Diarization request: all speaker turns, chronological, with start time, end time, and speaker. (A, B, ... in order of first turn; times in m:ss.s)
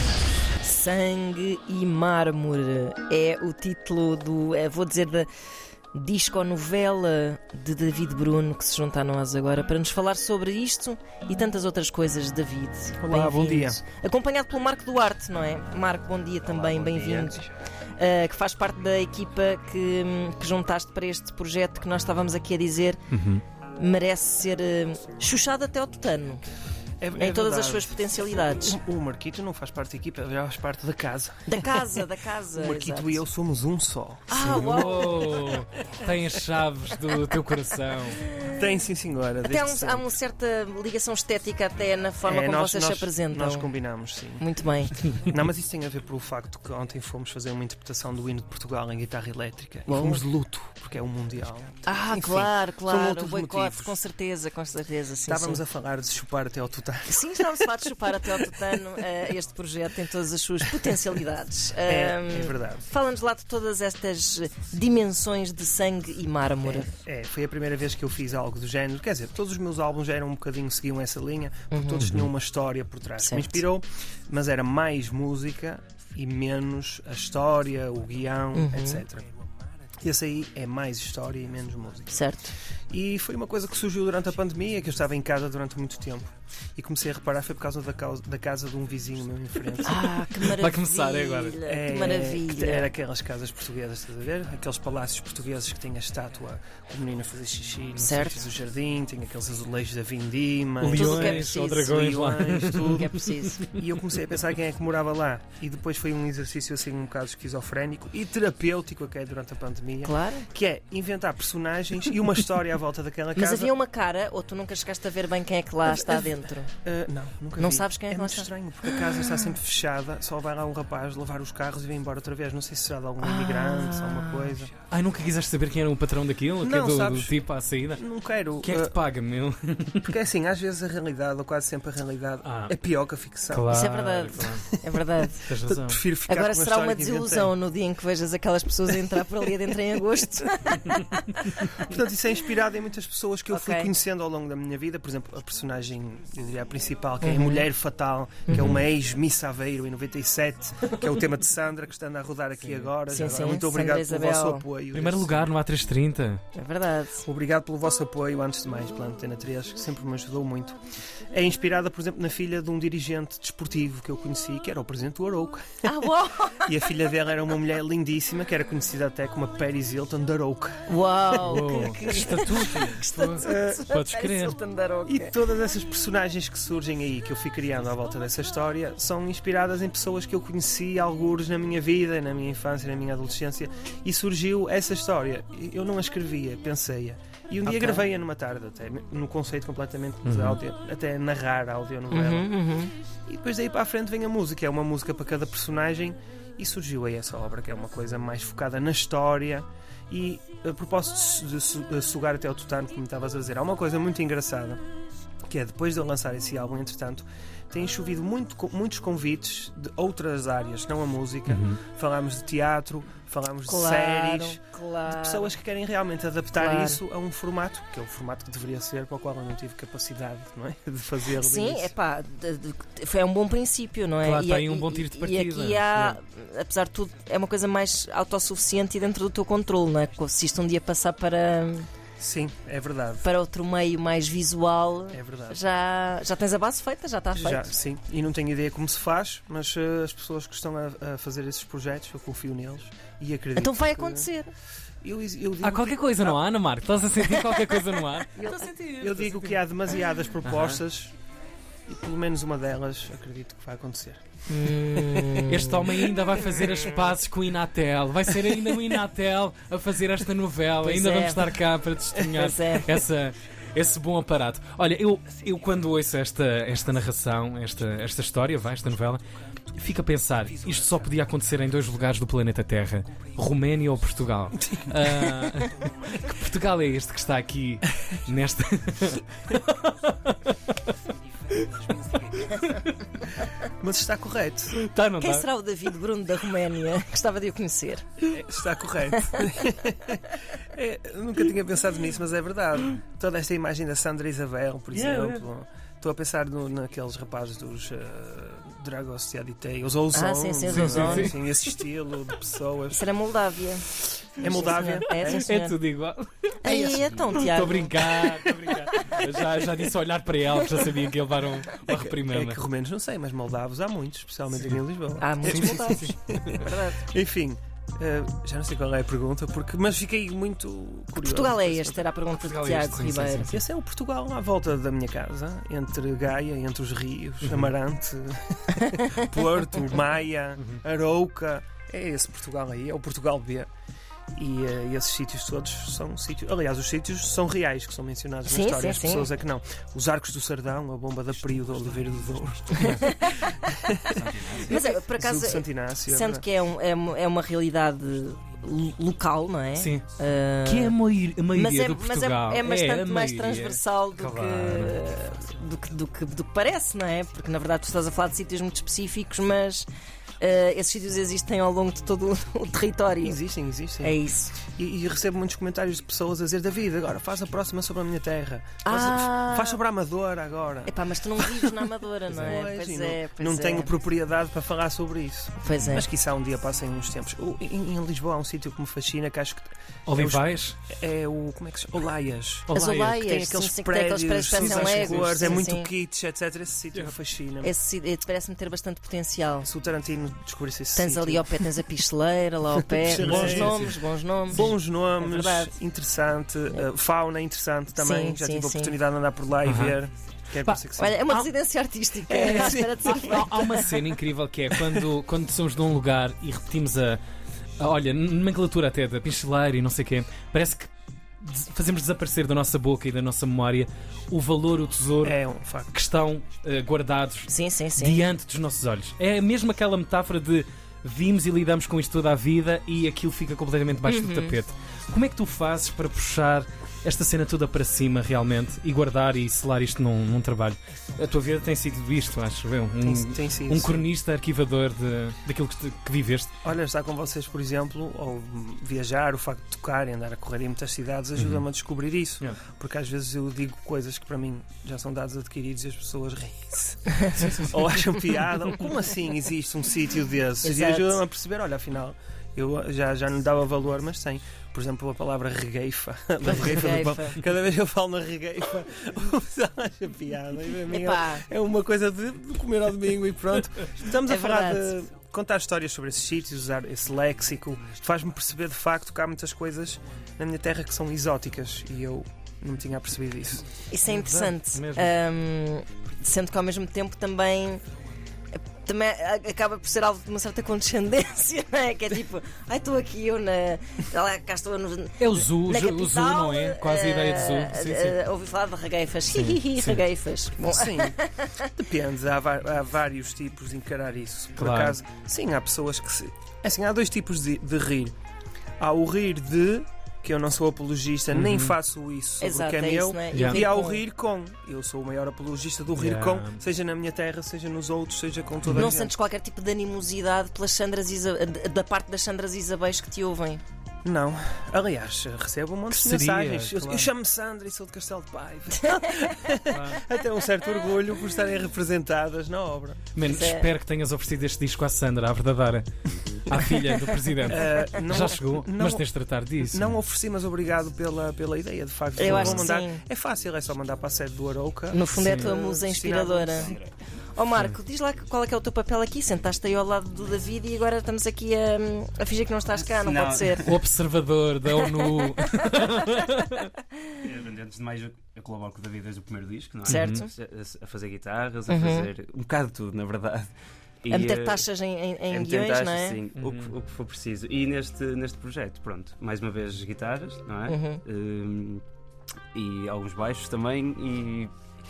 0:00.6-0:05.3 A
0:05.9-0:17.4 A
0:13.0-0:13.8 B
0:16.4-0:17.4 C
0:18.0-0:23.0 A
0:23.1-0:23.4 D
0:23.8-0:26.4 A
0:27.0-0:31.9 B
0:27.2-0:28.8 A
0:31.5-0:33.2 A
0:32.5-0:35.1 B
0:34.3-0:35.3 A
0:34.4-0:38.2 D
0:38.4-0:40.1 B
0:39.4-0:43.7 A
0:42.2-0:44.4 B
0:44.4-0:45.1 A
0:45.1-0:54.0 B
0:49.9-0:50.2 A
0:51.8-0:55.6 A
0:55.2-0:57.6 B
0:57.1-1:06.9 A
1:01.8-1:02.8 B
1:06.6-1:19.3 B
1:11.7-1:12.1 A
1:12.0-1:12.3 D
1:13.2-1:13.6 A
1:18.5-1:19.0 A
1:20.0-1:22.1 B
1:22.1-1:22.5 A
1:22.9-1:30.2 B
1:29.8-1:32.9 A
1:30.5-1:31.6 D
1:31.6-1:43.1 B
1:38.0-1:38.4 A
1:40.8-1:43.8 D
1:40.9-1:41.9 A
1:42.9-1:43.6 A
1:43.7-1:53.7 B
1:50.0-1:50.5 A
1:53.4-1:56.7 A
1:55.9-2:04.7 B
1:57.6-1:59.4 A
2:03.2-2:04.5 A
2:04.9-2:08.0 D
2:06.6-2:09.0 B
2:08.6-2:10.2 D
2:10.0-2:13.8 B
2:12.4-2:12.7 D
2:13.5-2:14.6 D
2:13.7-2:15.4 A
2:14.5-2:15.0 B
2:15.4-2:16.0 D
2:15.6-2:17.5 B
2:16.3-2:21.5 A
2:21.5-2:35.5 B
2:23.5-2:23.9 A
2:27.2-2:27.6 A
2:28.5-2:28.8 D
2:32.6-2:32.9 D
2:33.1-2:34.6 A
2:34.9-2:36.4 D
2:36.5-2:37.2 A
2:37.2-2:40.8 B
2:41.3-2:46.1 B
2:45.8-2:46.7 A
2:46.6-2:50.7 B
2:50.9-2:55.4 A
2:51.3-2:51.6 B
2:51.4-2:54.6 D
2:53.4-2:53.9 B
2:55.0-3:12.5 B
3:07.7-3:07.9 D
3:10.2-3:10.6 D
3:12.1-3:12.9 A
3:13.3-3:24.8 B
3:25.5-3:41.9 B
3:31.5-3:31.8 D
3:33.7-3:35.5 A
3:36.5-3:37.0 A
3:41.4-3:51.9 A
3:44.2-3:46.2 D
3:52.2-3:53.3 B
3:53.2-3:57.7 A
3:55.1-3:55.6 B
3:57.3-4:04.3 B
4:03.6-4:04.5 A
4:05.0-4:06.4 B
4:05.6-4:09.6 D
4:08.4-4:11.2 B
4:10.4-4:10.8 D
4:11.9-4:14.2 B
4:14.5-4:15.8 A
4:15.4-4:29.2 D
4:20.8-4:21.4 A
4:22.3-4:22.9 A
4:29.7-4:40.9 D
4:41.5-4:43.0 D
4:43.8-4:44.8 B
4:44.8-4:45.5 D
4:45.2-4:48.1 A
4:48.3-5:03.0 B
4:54.9-4:55.4 D
5:00.1-5:01.3 A
5:00.7-5:01.4 D
5:02.9-5:03.8 A
5:04.4-5:05.4 B
5:04.4-5:05.8 A
5:05.2-5:12.6 D
5:06.6-5:08.3 A
5:06.9-5:07.4 C
5:11.9-5:22.0 B
5:15.2-5:17.1 A
5:15.5-5:15.8 D
5:21.2-5:23.5 A
5:22.4-5:23.6 D
5:23.4-5:33.7 B
5:34.3-5:44.1 B
5:38.4-5:39.3 A
5:42.8-5:43.0 D
5:42.8-5:43.5 A
5:44.1-5:44.7 C
5:44.6-5:51.0 A
5:44.8-5:46.4 B
5:49.8-5:50.0 D
5:50.6-5:55.0 D
5:51.5-5:59.9 A
6:00.4-6:03.4 A
6:03.2-6:11.7 B
6:04.0-6:04.6 A
6:08.8-6:09.8 A
6:10.8-6:13.9 A
6:12.3-6:27.7 B
6:12.3-6:12.6 D
6:15.6-6:16.0 A
6:20.1-6:20.8 D
6:22.7-6:23.2 D
6:22.7-6:25.9 A
6:24.5-6:25.6 D
6:27.6-6:29.7 A
6:29.6-6:31.7 B
6:30.9-6:35.7 A
6:32.8-6:33.9 B
6:33.2-6:34.0 D
6:34.5-6:41.2 B
6:38.0-6:38.9 A
6:39.6-6:40.0 D
6:40.6-6:41.5 D
6:41.0-6:43.9 A
6:42.3-6:43.4 B
6:42.7-6:47.2 D
6:47.8-6:50.9 D
6:51.4-6:55.4 D
6:55.2-6:56.0 B
6:55.9-7:16.5 D
6:57.5-6:58.2 A
7:04.0-7:04.6 A
7:13.0-7:14.1 B
7:16.6-7:53.8 B
7:27.3-7:27.8 D
7:30.6-7:31.2 A
7:36.4-7:37.4 A
7:40.9-7:41.4 A
7:44.2-7:44.9 A
7:53.9-7:57.8 A
7:54.1-7:55.1 D
7:58.7-8:11.7 A
8:05.2-8:08.2 D
8:09.3-8:10.0 D
8:10.6-8:18.1 B
8:14.6-8:15.0 D
8:18.8-8:29.1 B
8:21.3-8:21.7 D
8:22.4-8:24.0 A
8:23.3-8:23.6 D
8:25.9-8:26.6 D
8:28.6-8:28.9 D
8:28.7-8:33.6 A
8:34.0-8:43.0 B
8:35.9-8:37.1 D
8:38.8-8:39.4 A
8:39.7-8:40.0 D
8:43.1-8:49.9 D
8:43.2-8:43.7 A
8:46.6-8:47.2 A
8:47.4-8:49.0 B
8:49.6-8:56.8 B
8:52.2-8:53.0 A
8:52.2-8:52.6 D
8:54.9-8:56.8 A
8:55.1-8:55.5 D
8:56.6-8:56.9 C
8:57.3-9:03.8 A
9:02.9-9:03.7 C
9:03.6-9:06.7 D
9:04.8-9:05.5 A
9:07.2-9:13.5 C
9:09.8-9:10.3 A
9:09.9-9:10.2 D
9:11.7-9:12.1 A
9:14.0-9:14.6 C
9:14.1-9:16.2 A
9:15.3-9:21.8 C
9:16.4-9:16.7 D
9:20.7-9:21.0 A
9:22.5-9:24.5 C